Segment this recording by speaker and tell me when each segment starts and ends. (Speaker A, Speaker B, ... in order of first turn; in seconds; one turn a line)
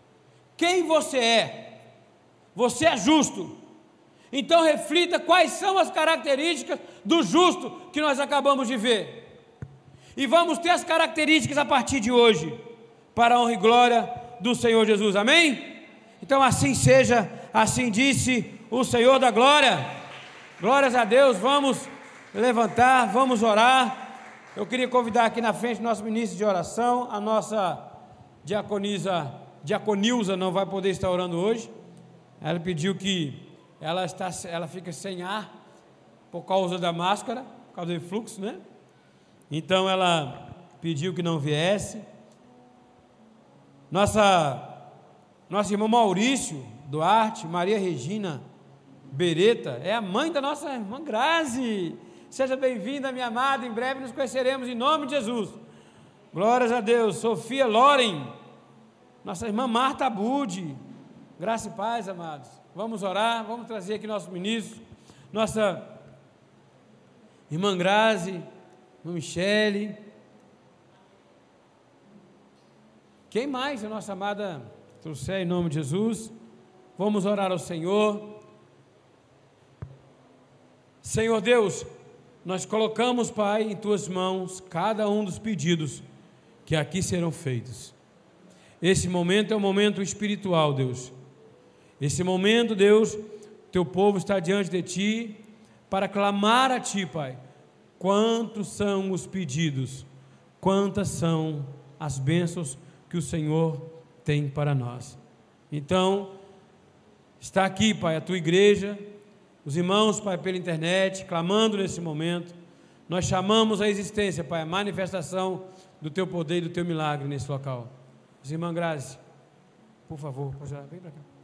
Speaker A: 0.6-1.8
Speaker A: 2.5-3.6
Speaker A: 4.3-9.3
Speaker A: 10.2-12.6
Speaker A: 13.2-19.9
Speaker A: 20.6-27.9
Speaker A: 28.4-31.7
Speaker A: 32.4-35.5
Speaker A: 36.3-38.6
Speaker A: 39.5-42.1
Speaker A: 43.9-44.8
Speaker A: 45.5-48.4
Speaker A: 49.1-55.6
Speaker A: 56.3-58.3
Speaker A: 59.2-60.8
Speaker A: 61.4-65.9
Speaker A: 67.5-68.5
Speaker A: 69.0-70.0
Speaker A: 73.3-76.3
Speaker A: 77.0-78.4
Speaker A: 81.0-81.9
Speaker A: 82.4-86.0
Speaker A: 86.7-88.0
Speaker A: 88.8-91.1
Speaker A: 92.0-97.4
Speaker A: 98.0-100.1
Speaker A: 100.6-105.2
Speaker A: 105.7-106.3
Speaker A: 107.4-109.1
Speaker A: 109.6-112.6
Speaker A: 113.1-119.2
Speaker A: 120.1-121.3